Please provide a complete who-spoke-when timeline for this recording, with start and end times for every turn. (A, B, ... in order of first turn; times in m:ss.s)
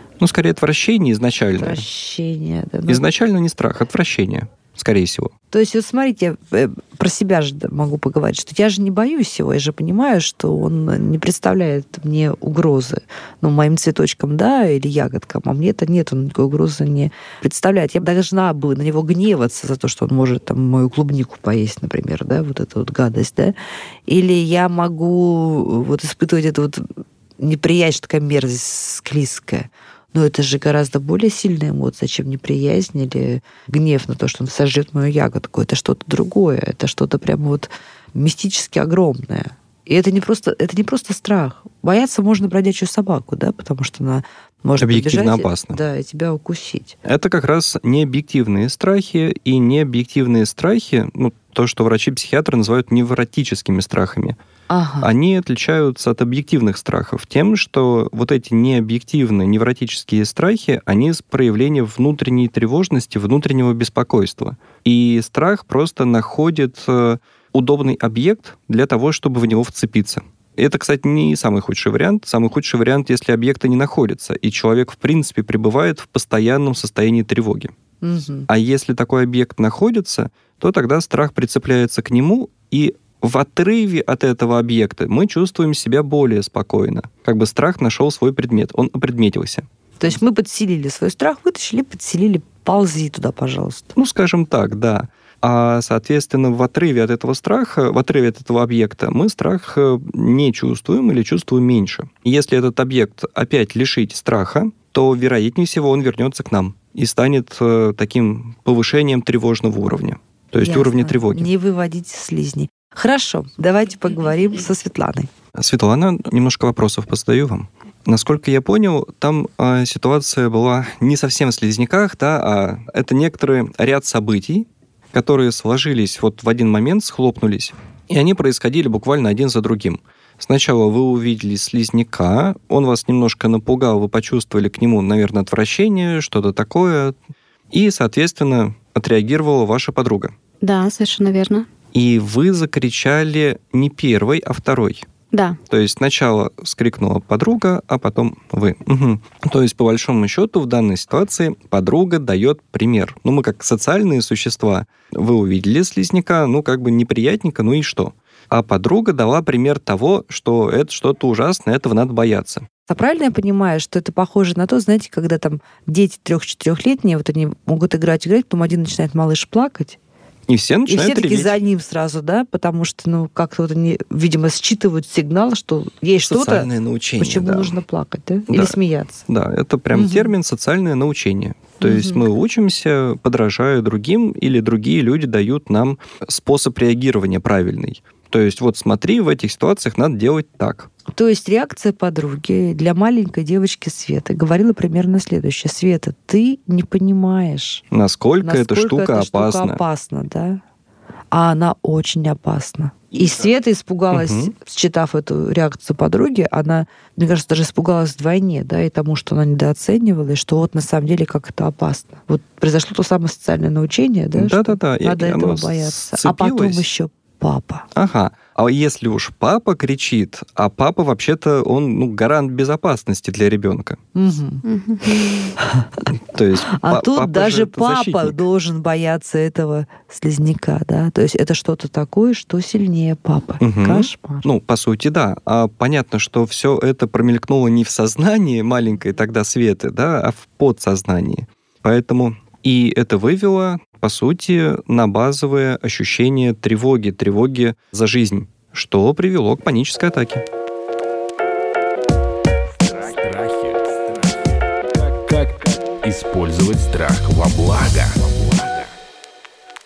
0:00.2-0:01.8 A
0:01.6-0:03.0 B
0:02.9-0:05.3 A
0:05.5-0:23.5 B
0:24.1-0:26.9 B
0:27.4-0:46.9 B
0:44.8-0:45.8 A
0:47.0-0:54.4 A
0:54.7-0:55.1 B
0:55.0-1:17.7 A
1:18.0-1:18.5 B
1:18.5-1:29.6 A
1:30.0-1:33.9 B
1:34.0-1:51.5 A
1:50.6-1:55.3 B
1:55.5-2:17.2 A
2:17.7-2:20.3 A
2:20.6-2:21.7 C
2:21.9-2:25.0 A
2:25.3-2:25.6 C
2:25.7-2:42.7 A
2:42.9-2:50.0 B
2:50.5-2:51.5 A
2:50.9-2:56.7 B
2:56.2-2:57.8 A
2:57.2-2:59.2 B
2:58.5-2:58.7 A
2:59.3-3:10.9 A
2:59.9-3:00.3 B
3:01.8-3:02.2 B
3:11.1-3:17.8 B
3:17.9-3:19.8 A
3:18.4-3:20.6 B
3:21.3-3:37.8 B
3:24.1-3:24.5 A
3:34.3-3:36.8 A
3:37.9-3:44.0 A
3:44.1-3:44.6 B
3:44.6-3:45.5 C
3:45.6-3:46.1 B
3:46.3-3:48.4 A
3:46.7-3:54.4 B
3:53.6-4:10.4 A
4:12.7-4:18.9 D